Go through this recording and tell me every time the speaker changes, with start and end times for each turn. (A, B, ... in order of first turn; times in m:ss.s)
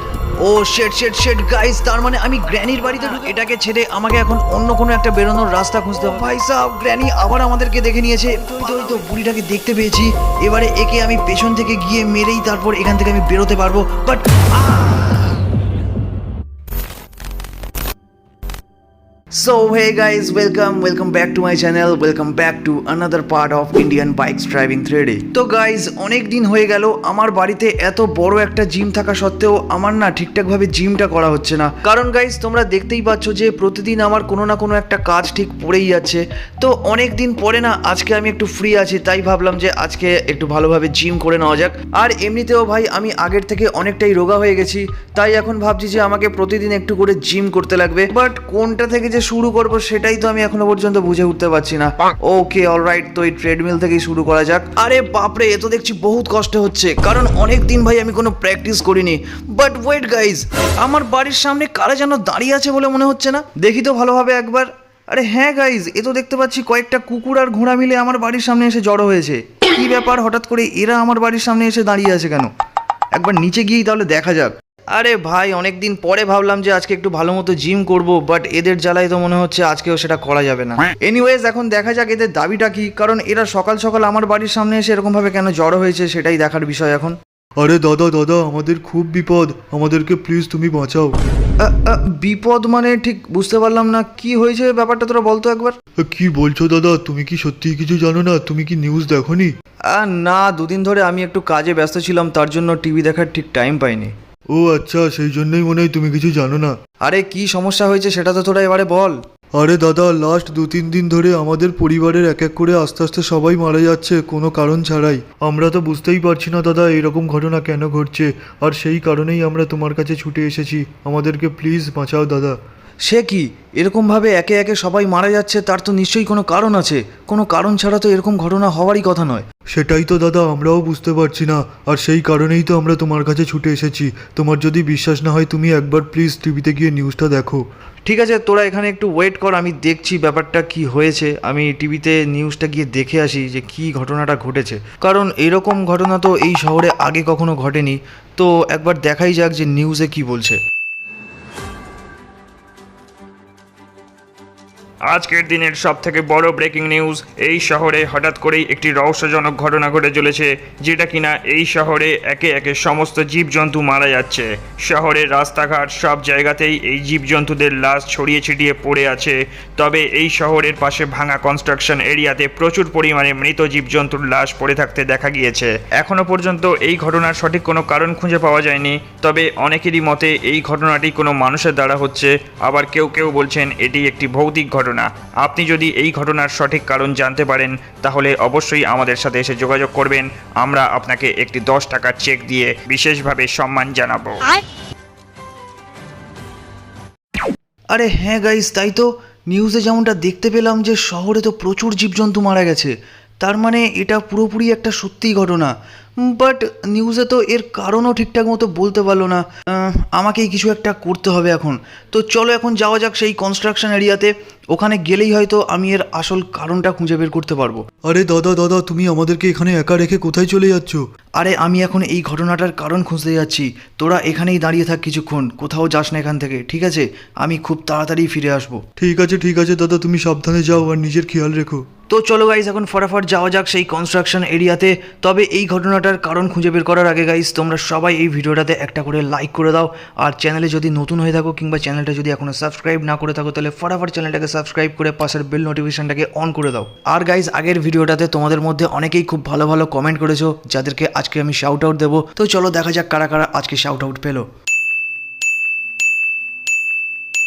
0:00.4-0:15.4 A
0:19.3-1:12.5 A
1:13.2-1:27.2 A
1:27.6-1:31.2 B
1:31.6-1:35.8 A
1:36.0-1:39.5 B
1:39.9-1:44.1 A
1:44.5-1:46.7 B
1:47.0-1:49.2 A
1:49.6-2:02.6 B
2:03.0-2:09.5 A
2:09.7-2:17.6 B
2:18.1-2:30.6 A
2:35.1-3:14.6 C
3:17.9-3:37.8 A
3:38.1-3:41.0 B
3:41.4-3:48.9 A
3:49.0-3:51.8 B
3:52.1-4:14.5 A